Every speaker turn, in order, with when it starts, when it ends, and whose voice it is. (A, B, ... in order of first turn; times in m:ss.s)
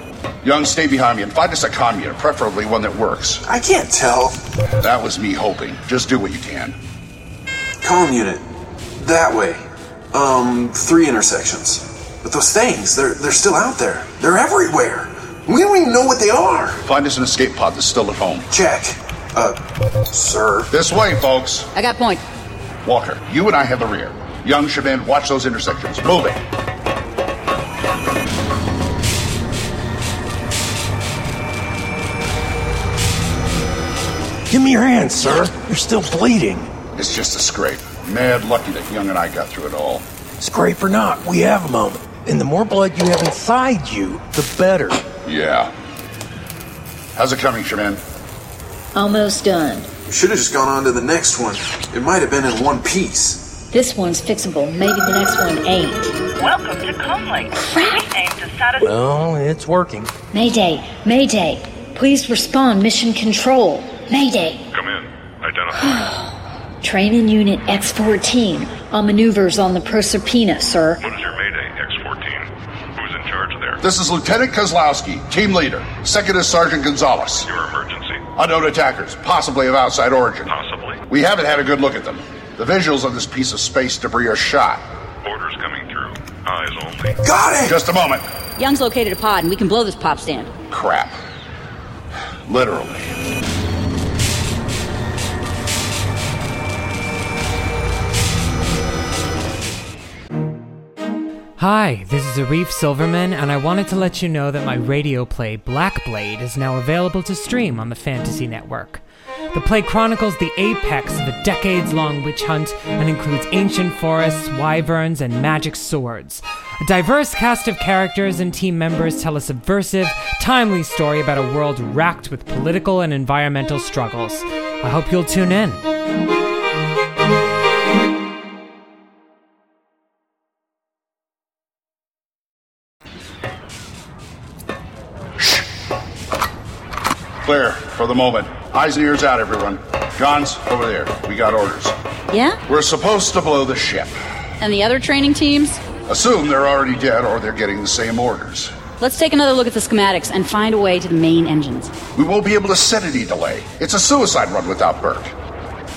0:00.4-0:03.4 A
0:03.4-0:04.4 B
0:04.8-0:06.8 A
0:07.8-0:08.4 B
0:09.0-0:09.6 B
0:10.1-0:16.8 B
0:16.8-0:18.5 A
0:18.5-0:19.6 B
0:20.1-0:20.7 B
0:20.7-0:21.7 A
0:21.8-0:22.2 C
0:22.8-0:26.4 A
0:34.5-0:36.7 D
0:37.0-0:40.0 A
0:40.4-0:45.0 D
0:45.2-0:45.7 A
0:47.2-0:48.0 A
0:49.0-0:49.9 E
0:50.1-0:53.5 B
0:53.7-0:56.1 E
0:56.4-0:58.8 F
0:57.5-0:58.1 E
0:58.8-1:00.1 D
1:00.3-1:04.6 E
1:04.7-1:06.1 G
1:05.7-1:11.0 E
1:11.0-1:13.8 G
1:13.8-1:17.5 A
1:17.4-1:18.2 G
1:18.4-1:20.5 A
1:20.5-1:21.0 G
1:21.1-1:24.8 A
1:25.2-1:27.2 G
1:27.2-1:27.8 B
1:27.7-1:28.2 A
1:28.6-1:30.5 C
1:30.7-1:31.2 A
1:32.5-1:33.1 A
1:41.6-1:49.0 H
1:49.5-2:05.8 H
2:17.4-2:22.0 A
2:22.3-2:22.6 C
2:22.7-2:24.1 A
2:24.6-2:25.8 C
2:26.1-2:28.7 A
2:29.0-2:31.9 C
2:32.2-2:35.3 A